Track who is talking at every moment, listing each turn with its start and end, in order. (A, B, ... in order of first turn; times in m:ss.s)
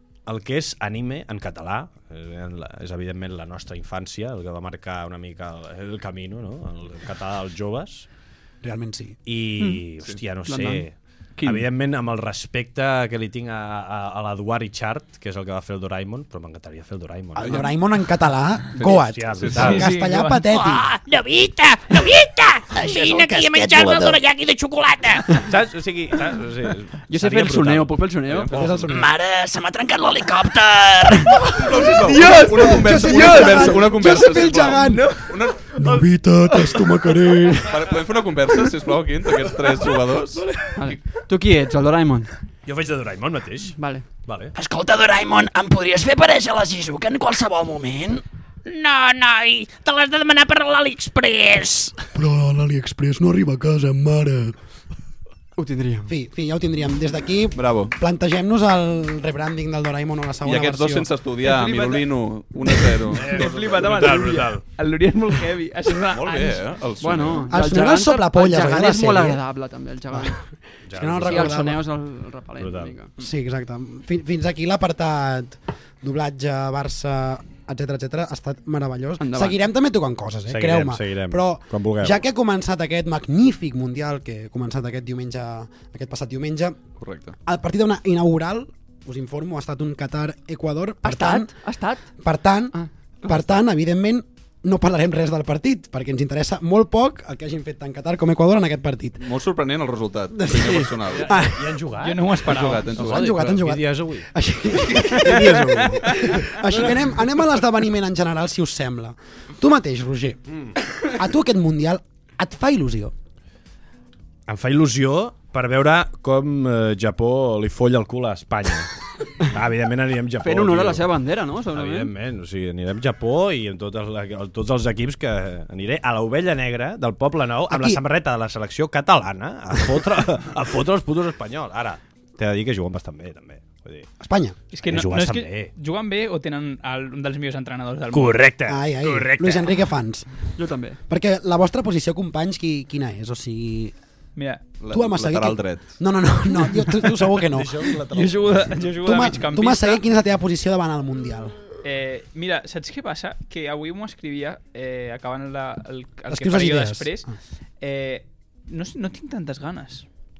0:00.2-0:08.1 A
0:08.6-0:09.2 B
0:09.2-0:17.7 A
0:10.4-0:10.8 C
0:17.4-0:20.9 B
0:17.4-0:17.6 D
0:18.8-0:19.8 D
0:18.8-0:19.9 A
0:19.6-0:20.4 E
0:20.5-0:25.4 F
0:22.7-0:24.2 B
0:25.3-0:28.7 A
0:27.1-0:28.5 C
0:28.3-0:28.9 D
0:28.5-0:29.1 B
0:28.8-0:31.6 F
0:31.5-0:35.7 D
0:31.6-0:37.9 B
0:32.1-0:33.6 C
0:35.7-0:37.1 A
0:37.6-0:40.4 D
0:40.7-0:42.3 C
0:42.6-0:44.5 A
0:43.8-0:44.0 C
0:44.5-0:52.0 F
0:52.1-0:54.6 B
0:55.6-0:56.1 C
0:56.1-1:01.1 B
0:57.5-0:57.9 D
1:00.4-1:03.8 D
1:01.4-1:02.0 C
1:03.1-1:04.6 A
1:03.2-1:06.6 E
1:06.1-1:07.5 D
1:07.0-1:10.4 C
1:07.5-1:09.4 B
1:10.1-1:11.8 B
1:10.9-1:11.6 A
1:11.2-1:13.1 C
1:12.6-1:12.9 A
1:13.2-1:26.8 B
1:19.2-1:19.6 C
1:20.5-1:22.2 A
1:27.0-1:27.4 D
1:27.4-1:31.6 B
1:31.0-1:32.1 C
1:32.2-1:39.3 B
1:32.7-1:33.4 C
1:39.2-1:41.4 D
1:40.3-1:41.7 B
1:41.1-1:44.3 A
1:42.0-1:42.9 E
1:42.4-1:43.4 D
1:43.0-1:50.4 B
1:45.0-1:46.9 A
1:51.0-1:53.1 B
1:54.5-2:01.1 A
2:00.4-2:02.1 C
2:01.7-2:14.1 A
2:07.7-2:08.0 B
2:14.2-2:14.6 B
2:14.7-2:18.4 E
2:14.8-2:15.7 A
2:18.1-2:19.8 A
2:18.7-2:20.3 B
2:20.6-2:21.0 C
2:21.1-2:23.9 B
2:24.4-2:24.6 E
2:24.8-2:26.0 D
2:24.9-2:27.9 B
2:27.4-2:28.9 A
2:28.1-2:30.0 E
2:29.0-2:31.6 B
2:31.8-2:40.0 E
2:36.3-2:37.2 B